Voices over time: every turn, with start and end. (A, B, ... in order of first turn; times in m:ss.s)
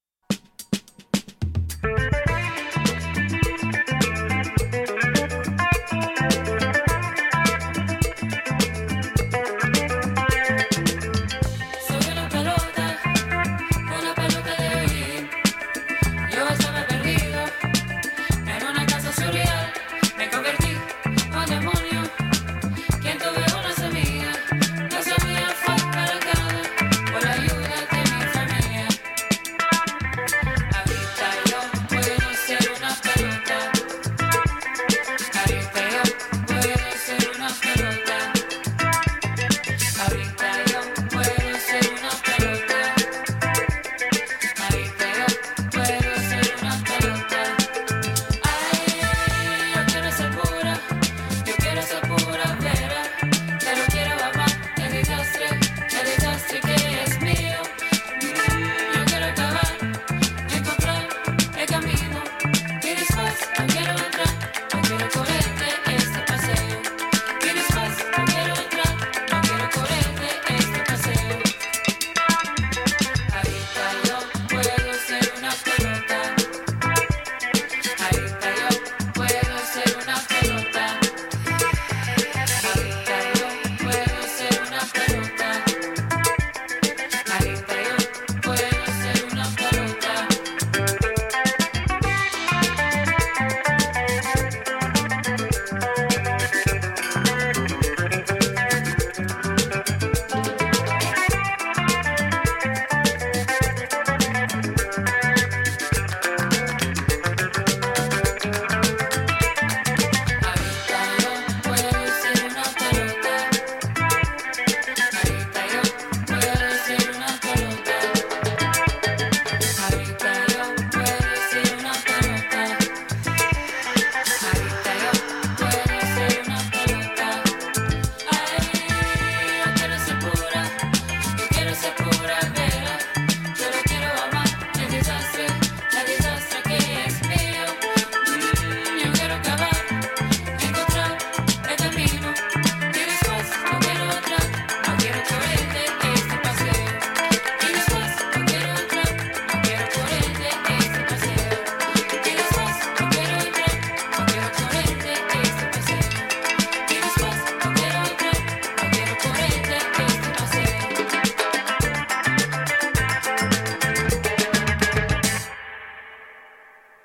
0:11.8-0:13.0 A
0:13.9-0:15.3 A
0:16.2-0:17.5 A
0:18.4-0:22.1 A
0:23.0-0:29.0 A
0:30.7-0:33.8 A
0:35.3-0:38.4 A
0:40.0-0:43.0 A
0:44.6-0:47.6 A
0:48.4-0:50.8 A
0:51.4-0:59.9 A
1:00.5-1:11.5 A
1:13.3-1:16.4 A
1:18.0-1:21.1 A
1:22.6-1:25.7 A
1:27.3-1:30.3 A
1:50.4-1:53.5 A
1:55.1-1:58.2 A
1:59.7-2:02.8 A
2:04.4-2:07.5 A
2:08.2-2:10.8 A
2:11.3-2:19.9 A
2:20.6-2:27.1 A
2:27.6-2:36.2 A
2:36.8-2:41.0 A